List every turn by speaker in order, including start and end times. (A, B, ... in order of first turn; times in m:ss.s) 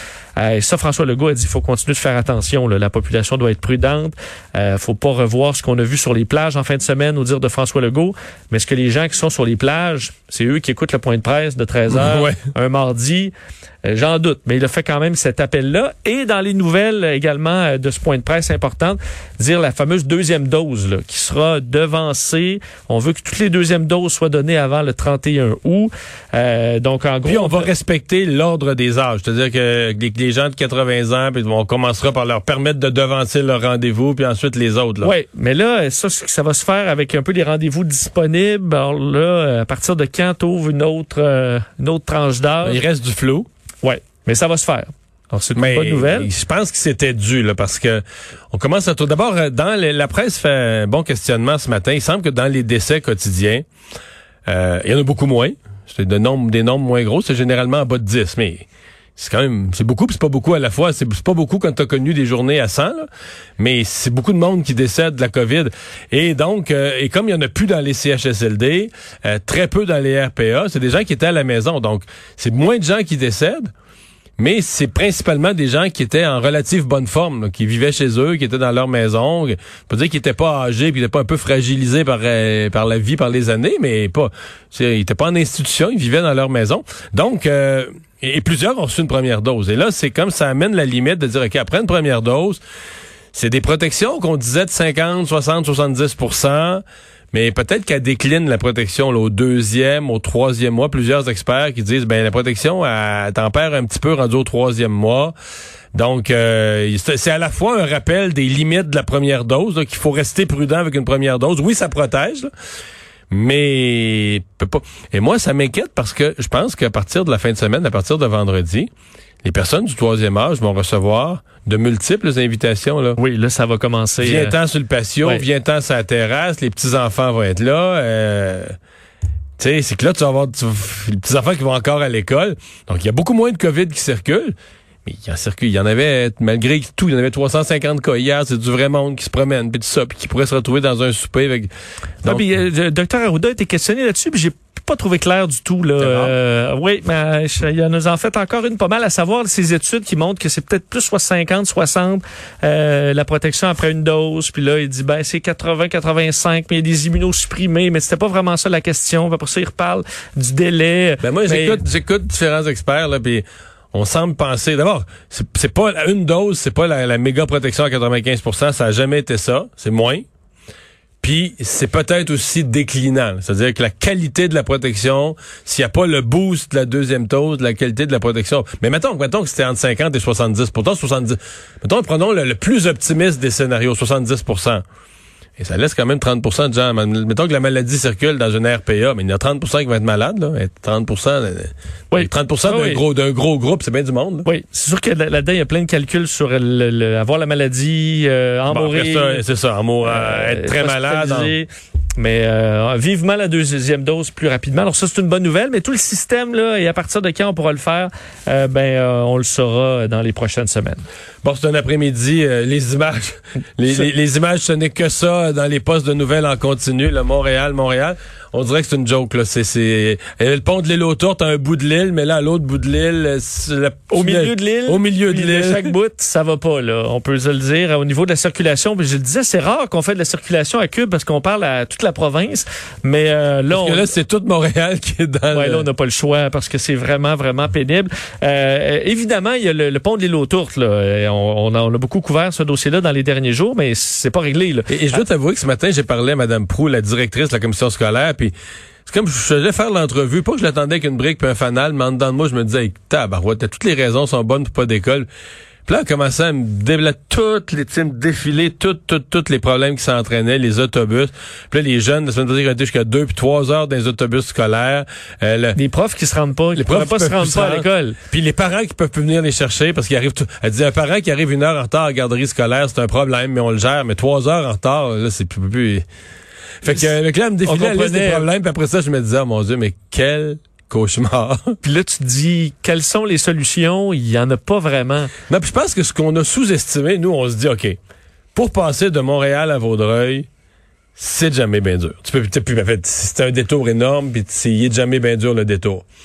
0:00.4-0:13.3 A
0:11.9-0:12.4 B
0:13.8-0:27.7 A
0:27.2-0:35.1 B
0:35.0-0:42.8 A
0:42.6-0:43.5 B
0:43.8-0:46.3 A
0:45.6-0:53.6 B
0:54.4-1:03.0 B
1:03.6-1:13.7 B
1:14.4-1:32.6 B
1:33.3-1:45.3 B
1:45.9-1:52.5 B
1:53.3-1:58.9 B
1:59.4-2:03.2 B
2:03.2-2:04.6 A
2:04.2-2:08.8 B
2:09.6-2:14.5 B
2:15.0-2:21.7 B
2:22.2-2:22.5 B
2:22.2-2:41.8 A
2:26.0-2:26.3 B
2:41.2-2:50.2 B
2:51.2-3:04.8 B
3:05.6-3:14.5 B
3:12.1-3:13.0 A
3:14.4-3:19.4 A
3:18.7-3:21.5 B
3:20.0-3:31.0 A
3:31.4-3:45.9 B
3:44.1-3:54.1 A
3:53.7-3:55.8 B
3:55.5-4:05.2 A
4:04.9-4:08.5 B
4:09.0-4:15.3 B
4:15.8-4:25.8 B
4:25.8-4:28.2 A
4:26.7-4:36.0 B
4:36.8-4:41.8 B
4:37.6-4:38.4 A
4:41.8-4:45.3 A
4:45.5-4:48.0 B
4:48.5-4:50.5 B
4:51.2-4:56.0 B